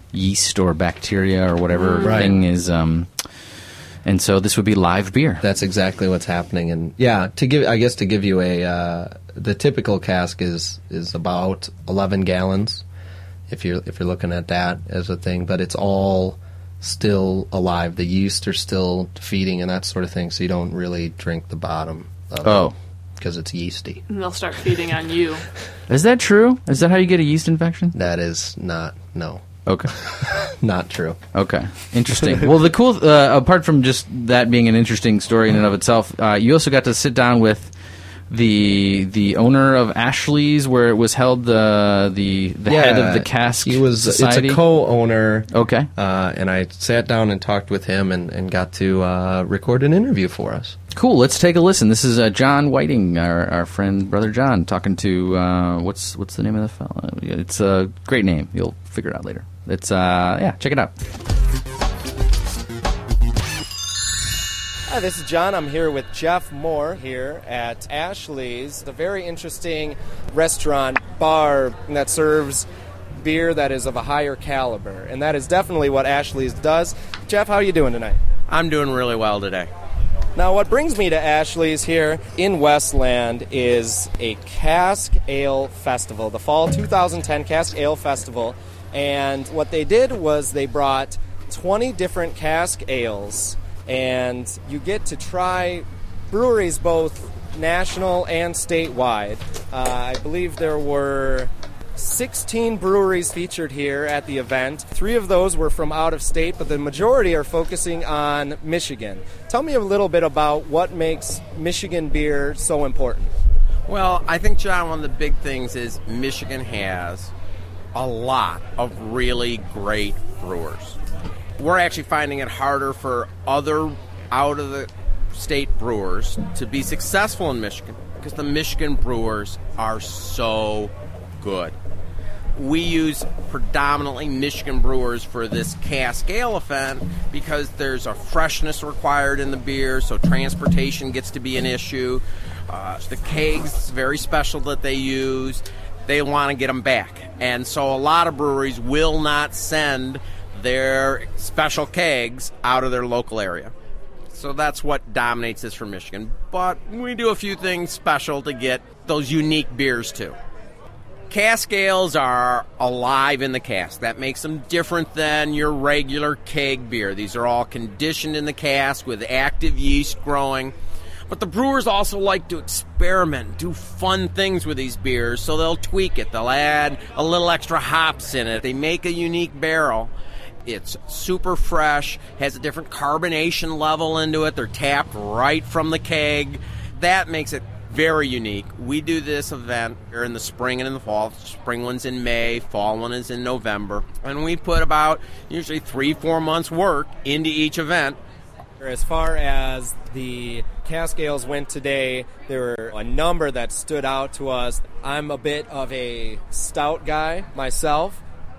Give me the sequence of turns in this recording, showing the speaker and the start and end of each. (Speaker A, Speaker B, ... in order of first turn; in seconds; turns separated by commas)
Speaker A: 0.1-3.1, Speaker B: 1.8-2.4, Speaker C: 2.0-2.3, Speaker A: 4.0-5.4, Speaker C: 5.4-12.8, Speaker C: 13.5-24.0, Speaker A: 22.4-22.7, Speaker B: 24.1-25.4, Speaker A: 25.9-27.9, Speaker C: 27.9-31.2, Speaker A: 29.7-29.9, Speaker A: 31.3-37.7, Speaker A: 38.3-44.6, Speaker C: 42.7-50.8, Speaker A: 45.5-45.9, Speaker A: 50.9-61.0, Speaker D: 64.9-72.7, Speaker D: 73.2-78.2, Speaker E: 78.5-79.7, Speaker D: 80.4-113.3, Speaker E: 113.9-117.3, Speaker E: 117.9-121.0, Speaker E: 121.6-131.8, Speaker E: 132.6-153.7, Speaker E: 154.3-160.4, Speaker E: 161.3-170.8, Speaker E: 171.3-180.1, Speaker E: 180.7-198.2, Speaker D: 198.8-208.2